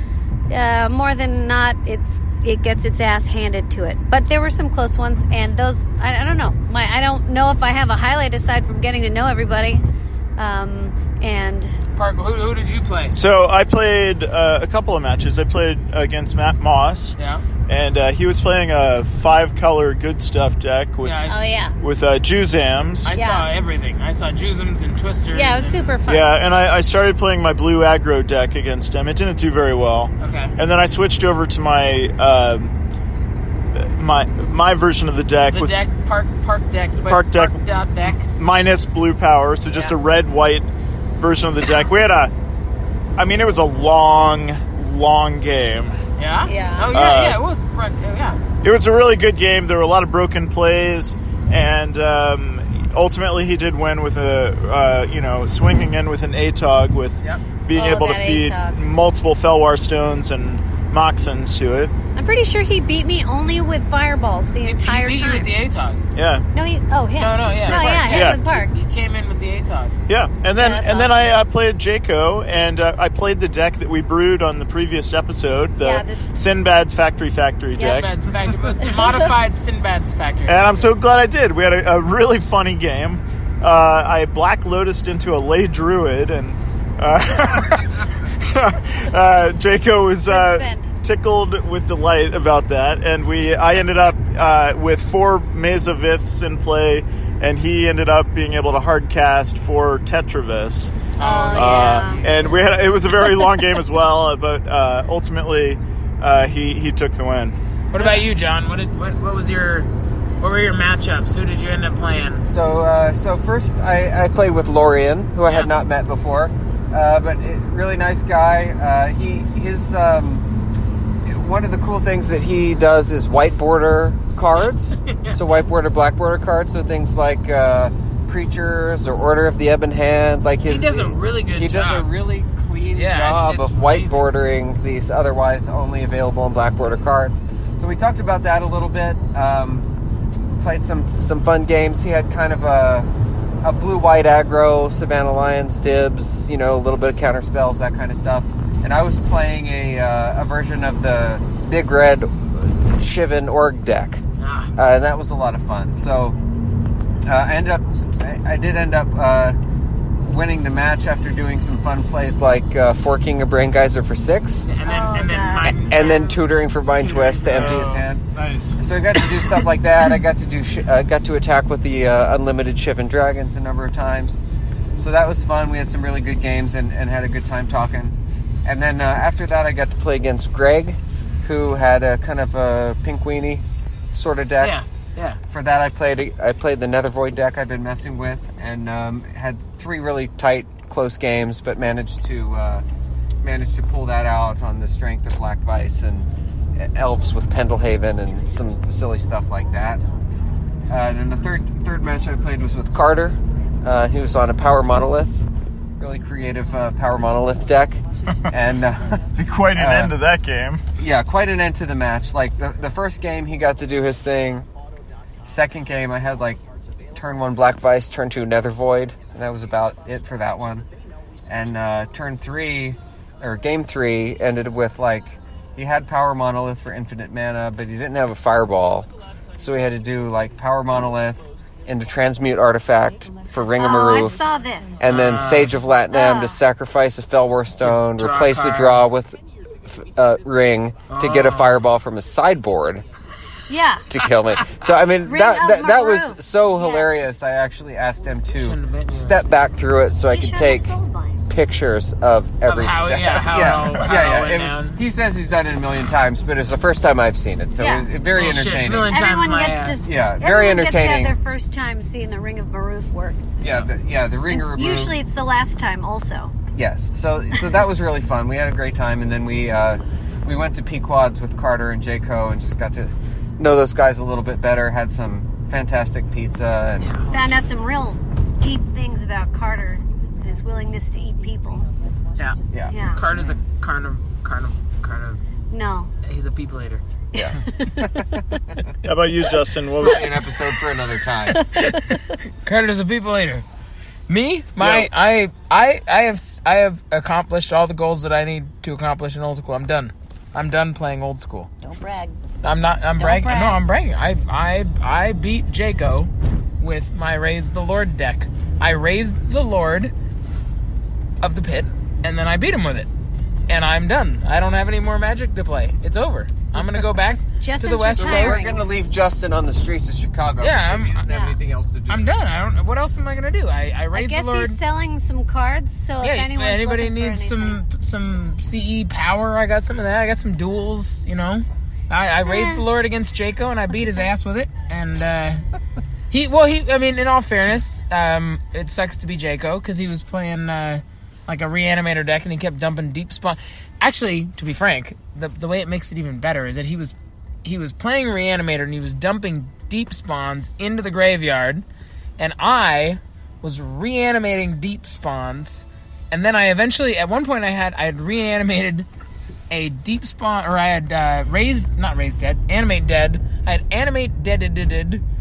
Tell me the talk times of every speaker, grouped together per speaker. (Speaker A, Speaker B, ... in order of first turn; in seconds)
Speaker A: 0.5-9.8, 10.4-11.8, 21.2-21.8, 23.1-23.5, 25.3-26.4, 46.5-47.0, 57.7-58.8, 62.1-65.5, 66.5-68.7, 70.5-71.1, 75.8-76.3, 78.9-79.2, 90.3-90.9, 101.2-102.2, 164.8-165.9, 233.7-235.0, 236.1-236.6, 243.7-244.1, 245.2-247.1, 250.3-251.4, 257.8-258.1, 259.1-263.4, 264.5-266.5, 277.3-281.9, 282.9-283.2, 285.7-286.1, 287.3-288.0, 301.8-302.4, 303.2-303.8, 317.6-318.8, 321.3-321.6, 324.1-327.8, 332.4-332.8
Speaker B: 11.9-13.2, 17.2-17.4, 21.0-21.4, 23.0-25.9, 30.2-30.6, 35.5-38.3, 39.7-40.0, 46.2-48.4, 64.6-66.0, 67.2-70.0, 77.8-80.7, 101.2-102.3, 107.9-109.9, 110.4-112.4, 115.5-115.7, 124.6-125.4, 130.6-132.1, 132.9-134.3, 154.4-154.7, 164.6-167.9, 184.6-185.4, 235.0-235.8, 237.8-239.1, 241.1-241.8, 248.6-249.5, 252.6-255.1, 258.3-260.1, 263.6-263.9, 277.0-277.4, 282.4-285.4, 286.2-287.0, 291.7-293.6, 294.3-301.7, 302.6-310.1, 311.4-313.1, 313.7-318.7, 320.6-321.3, 322.1-324.8, 326.2-335.6, 336.3-351.9, 352.4-359.1, 359.7-365.2
Speaker C: 13.1-17.2, 17.7-21.2, 21.8-23.1, 26.0-32.8, 33.8-35.8, 37.0-37.6, 38.2-42.3, 43.2-46.0, 46.9-47.4, 48.6-61.9, 66.1-66.5, 67.7-68.4, 70.1-78.1, 80.5-107.6, 167.5-168.8, 209.3-210.8, 289.1-290.3, 294.8-295.1
Speaker D: 112.5-120.5, 121.2-139.9, 140.5-143.1, 143.6-154.2, 154.8-156.4, 157.2-159.6, 160.2-164.7, 165.6-168.2, 168.8-174.4, 175.0-184.8, 185.5-192.8, 193.4-200.0, 200.9-205.3, 206.0-209.1, 209.8-210.1, 211.0-214.7, 215.4-216.6, 217.1-220.9, 221.5-234.4, 235.0-243.1, 244.1-250.9, 251.5-259.1, 260.0-261.4, 263.6-265.2, 266.7-277.1, 282.7-283.6, 287.3-288.9, 290.0-291.6, 318.2-322.3